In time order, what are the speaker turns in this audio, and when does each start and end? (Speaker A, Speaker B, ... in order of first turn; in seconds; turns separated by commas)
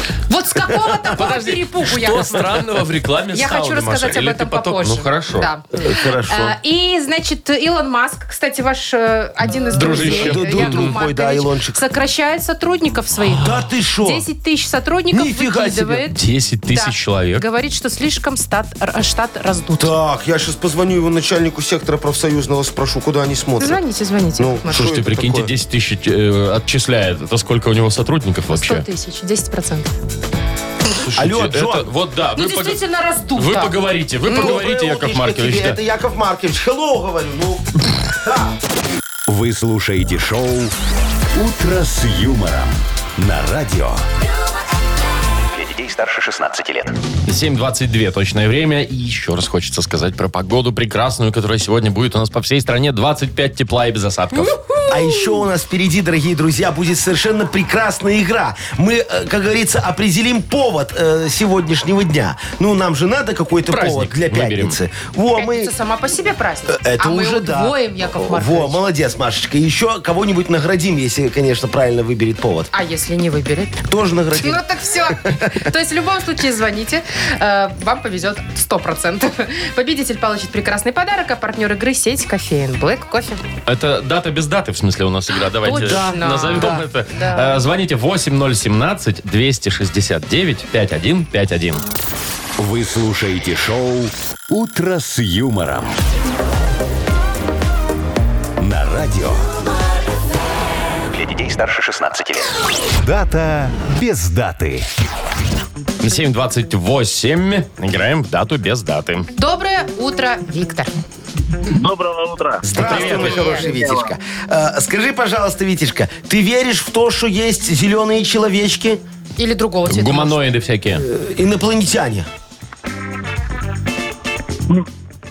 Speaker A: 0.3-2.5, Speaker B: 1.0-5.5, Speaker A: 3.3-16.2, Speaker C: 5.7-6.6, Speaker B: 9.8-11.0, Speaker C: 9.8-11.8, Speaker C: 13.4-14.3, Speaker C: 15.1-16.1, Speaker B: 16.1-17.4, Speaker A: 16.7-19.9, Speaker C: 19.8-23.8, Speaker A: 23.6-24.9, Speaker C: 24.4-25.5, Speaker B: 24.7-28.9, Speaker A: 28.5-29.9, Speaker B: 31.0-32.8, Speaker C: 31.1-31.9, Speaker A: 32.4-34.5, Speaker B: 33.4-35.8, Speaker C: 34.3-38.6, Speaker D: 39.3-40.7, Speaker D: 41.3-44.0, Speaker D: 45.8-46.8, Speaker B: 47.3-54.6, Speaker A: 54.6-54.9, Speaker C: 54.9-65.7, Speaker B: 63.7-64.8, Speaker A: 65.4-68.8, Speaker C: 66.7-72.7, Speaker A: 72.7-73.8, Speaker C: 73.8-75.7, Speaker A: 74.3-83.4, Speaker B: 83.7-91.8, Speaker A: 85.7-87.6, Speaker C: 85.7-86.9, Speaker D: 92.6-96.0, Speaker D: 98.6-99.5, Speaker D: 103.0-104.9, Speaker B: 106.0-109.3, Speaker A: 109.4-110.9, Speaker E: 111.7-114.1, Speaker C: 112.6-119.0, Speaker A: 112.8-113.7, Speaker B: 112.8-113.1, Speaker A: 119.4-120.4, Speaker B: 119.9-121.0, Speaker C: 121.0-122.3